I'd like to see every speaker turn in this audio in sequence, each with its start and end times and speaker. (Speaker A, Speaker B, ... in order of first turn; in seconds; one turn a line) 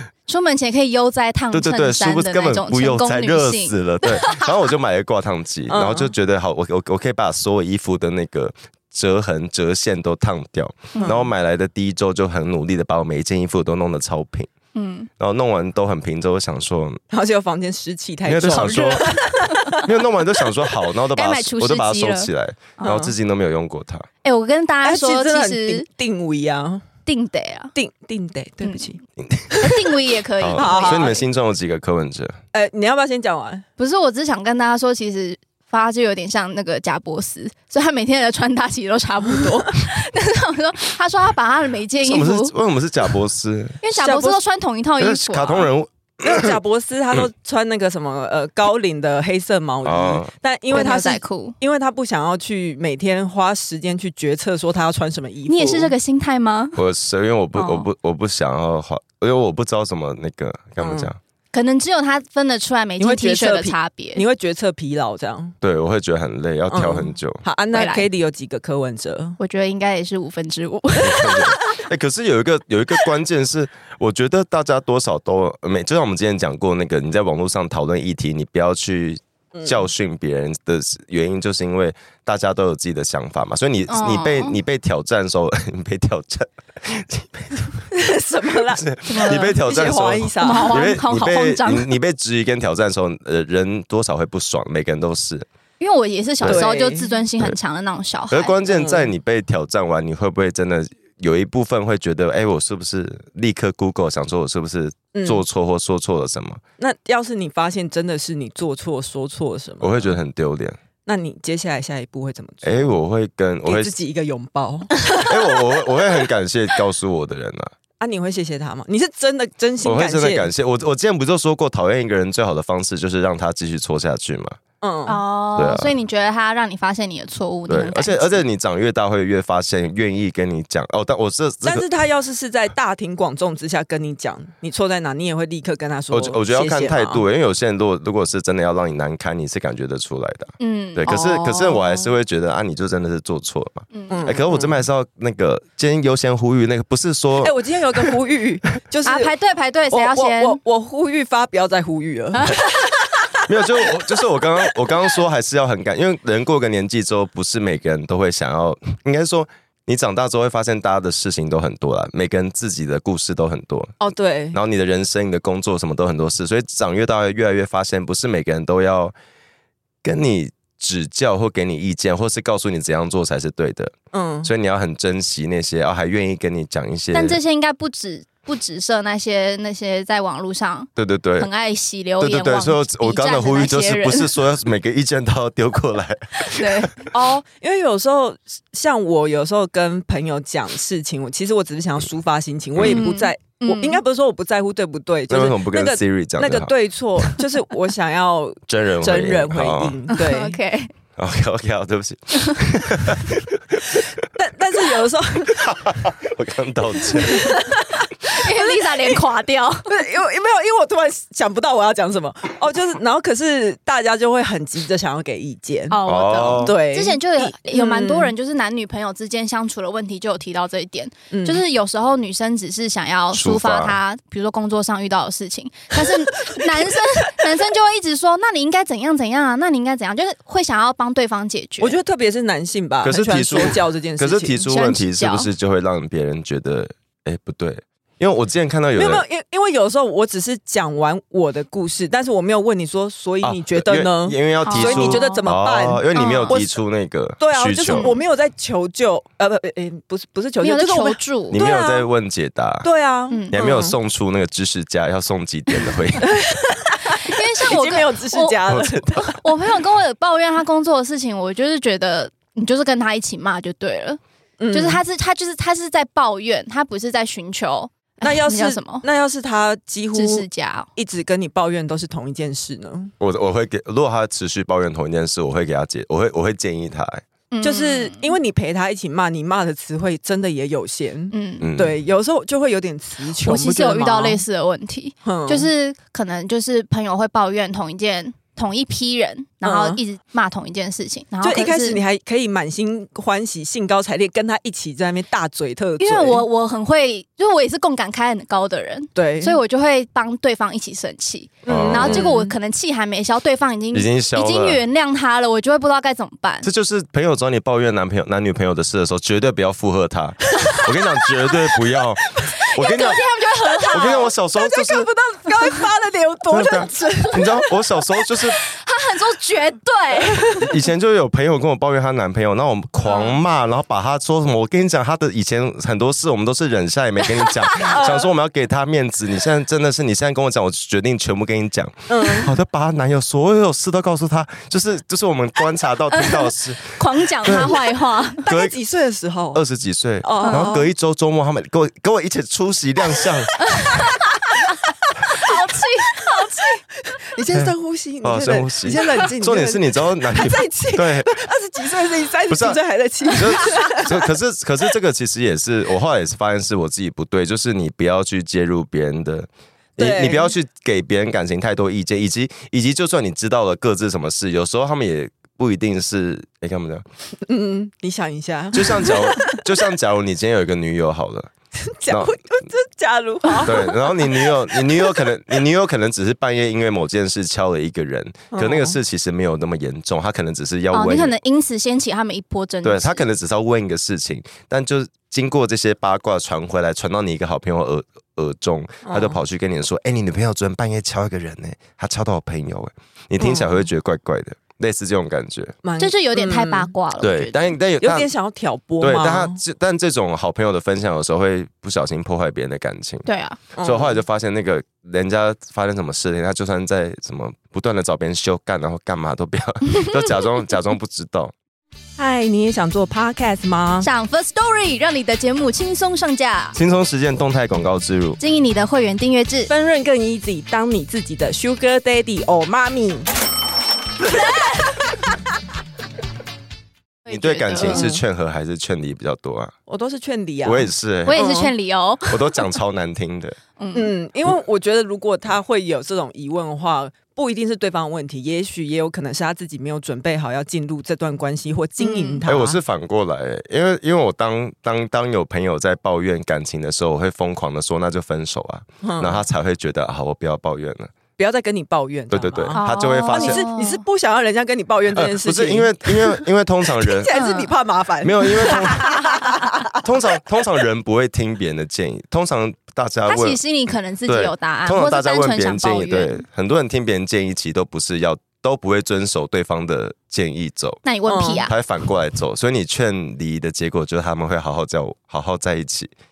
Speaker A: 0.3-4.5
Speaker B: 1.5-14.5
Speaker C: 5.7-6.1
Speaker A: 10.9-11.2
Speaker C: 11.0-11.3
Speaker A: 14.7-15.1
Speaker B: 15.2-17.0
Speaker C: 17.1-19.9
Speaker B: 18.2-19.1
Speaker A: 18.5-19.8
Speaker B: 19.8-24.1
Speaker A: 21.1-22.3
Speaker C: 22.8-23.1
Speaker A: 24.2-25.8
Speaker C: 24.8-26.9
Speaker A: 27.1-27.7
Speaker C: 27.7-29.0
Speaker A: 28.6-28.9
Speaker B: 29.2-29.6
Speaker A: 29.5-31.2
Speaker B: 30.4-32.4
Speaker C: 30.5-31.1
Speaker C: 32.5-33.6
Speaker A: 33.8-42.5
Speaker B: 42.0-43.8
Speaker A: 43.8-45.7
Speaker C: 43.9-44.4
Speaker B: 45.0-46.6
Speaker C: 46.2-55.9
Speaker B: 49.8-50.3
Speaker A: 50.7-51.5
Speaker A: 55.5-56.8
Speaker B: 56.8-61.2
Speaker A: 57.5-57.9
Speaker C: 60.8-61.1
Speaker A: 61.5-64.2
Speaker C: 63.0-65.5
Speaker B: 65.6-67.4
Speaker C: 66.7-69.4
Speaker A: 67.7-68.0
Speaker A: 69.4-71.6
Speaker B: 71.0-87.8
Speaker C: 79.5-79.8
Speaker A: 83.9-84.6
Speaker C: 87.9-90.9
Speaker B: 88.6-95.5
Speaker A: 89.1-91.9
Speaker A: 95.8-98.6
Speaker C: 96.4-97.2
Speaker B: 98.3-106.6
Speaker C: 98.7-99.1
Speaker C: 105.1-105.4
Speaker C: 106.8-110.2
Speaker B: 109.8-110.8
Speaker C: 111.0-112.9
Speaker B: 112.6-113.9
Speaker C: 113.6-115.3
Speaker B: 115.2-117.7
Speaker C: 118.0-120.5
Speaker B: 119.8-124.6
Speaker C: 124.8-125.2
Speaker A: 125.1-128.4
Speaker B: 125.5-125.9
Speaker B: 127.7-131.8
Speaker C: 131.6-137.2
Speaker B: 136.1-147.5
Speaker A: 140.6-141.1
Speaker C: 141.1-142.1
Speaker A: 143.9-144.3
Speaker C: 144.1-144.8
Speaker C: 147.4-149.3
Speaker A: 149.1-150.6
Speaker C: 149.9-153.9
Speaker A: 152.3-152.6
Speaker B: 153.4-163.9
Speaker C: 164.0-164.6
Speaker B: 164.5-169.1
Speaker B: 170.0-177.4
Speaker C: 174.1-174.5
Speaker A: 177.1-184.3
Speaker B: 181.0-181.5
Speaker B: 182.2-186.9
Speaker A: 186.4-186.9
Speaker C: 187.1-200.6
Speaker B: 192.8-193.0
Speaker A: 192.8-194.0
Speaker B: 195.3-196.7
Speaker B: 198.7-200.0
Speaker A: 200.1-200.9
Speaker B: 201.2-204.0
Speaker C: 204.3-206.1
Speaker B: 205.5-207.6
Speaker C: 207.1-209.2
Speaker A: 208.2-209.9
Speaker C: 209.9-216.0
Speaker A: 215.9-232.0
Speaker B: 216.1-216.7
Speaker C: 216.5-218.3
Speaker C: 221.3-221.6
Speaker B: 223.3-224.0
Speaker C: 231.8-234.6
Speaker B: 233.0-239.2
Speaker A: 234.6-235.5
Speaker C: 238.9-246.7
Speaker B: 243.4-248.1
Speaker A: 244.6-245.4
Speaker A: 246.1-246.6
Speaker C: 247.4-251.2
Speaker A: 247.9-248.2
Speaker A: 250.6-252.0
Speaker B: 251.5-252.9
Speaker C: 252.8-253.9
Speaker B: 253.5-256.3
Speaker C: 256.2-259.4
Speaker A: 257.0-258.6
Speaker B: 258.7-259.3
Speaker A: 259.1-264.2
Speaker C: 264.6-265.0
Speaker A: 264.7-269.0
Speaker C: 268.2-270.4
Speaker A: 270.1-270.9
Speaker C: 270.9-273.1
Speaker B: 273.2-277.2
Speaker A: 277.5-278.4
Speaker C: 277.6-284.4
Speaker A: 281.3-281.7
Speaker B: 281.6-282.0
Speaker A: 283.4-292.0
Speaker C: 285.2-285.7
Speaker C: 289.6-290.0
Speaker C: 291.4-296.4
Speaker A: 296.0-306.7
Speaker C: 299.1-299.6
Speaker B: 301.6-302.3
Speaker C: 301.6-302.6
Speaker B: 303.9-304.8
Speaker B: 306.6-313.2
Speaker C: 310.6-310.9
Speaker C: 312.4-313.1
Speaker A: 312.6-314.3
Speaker C: 313.7-317.7
Speaker B: 313.9-315.1
Speaker B: 316.5-318.6
Speaker A: 318.4-320.6
Speaker B: 320.6-337.8
Speaker A: 327.3-327.9
Speaker C: 327.8-328.3
Speaker C: 332.1-332.5
Speaker A: 336.1-338.4
Speaker C: 338.4-339.6
Speaker B: 338.4-338.7
Speaker B: 339.5-343.5
Speaker C: 340.2-340.9
Speaker A: 340.4-340.8
Speaker A: 343.6-344.7
Speaker A: 345.3-346.8
Speaker C: 347.0-354.3
Speaker B: 347.5-351.3
Speaker B: 352.5-352.8
Speaker B: 353.3-367.0
Speaker C: 360.0-360.5
Speaker C: 367.4-369.6
Speaker B: 368.7-371.5
Speaker C: 371.8-375.5
Speaker B: 372.1-372.4
Speaker B: 373.6-381.3
Speaker C: 378.5-379.0
Speaker A: 380.9-383.2
Speaker B: 382.8-395.8
Speaker C: 389.0-389.4
Speaker C: 393.4-393.8
Speaker C: 395.8-396.9
Speaker A: 396.0-397.7
Speaker B: 397.2-398.3
Speaker C: 398.0-399.6
Speaker B: 399.0-403.2
Speaker A: 403.2-403.6
Speaker C: 403.8-404.2
Speaker B: 403.8-411.5
Speaker C: 412.2-414.1
Speaker A: 414.0-416.8
Speaker B: 416.7-418.4
Speaker A: 418.4-419.7
Speaker C: 419.7-423.3
Speaker A: 424.4-424.6
Speaker C: 424.4-424.9
Speaker A: 427.2-428.1
Speaker B: 427.3-429.7
Speaker C: 427.8-428.2
Speaker C: 429.9-431.7
Speaker B: 430.6-431.4
Speaker A: 431.3-432.6
Speaker B: 432.3-433.6
Speaker A: 433.8-434.1
Speaker C: 433.9-442.8
Speaker A: 442.0-442.4
Speaker B: 442.4-451.1
Speaker C: 449.0-449.4
Speaker C: 451.4-456.5
Speaker B: 452.3-453.6
Speaker A: 452.8-454.0
Speaker B: 455.1-457.3
Speaker C: 457.0-460.0
Speaker A: 457.3-457.7
Speaker B: 458.2-459.1
Speaker A: 458.6-459.6
Speaker B: 460.0-463.6
Speaker A: 463.2-466.4
Speaker B: 464.3-471.0
Speaker A: 471.0-471.7
Speaker C: 471.2-471.7
Speaker B: 471.6-476.1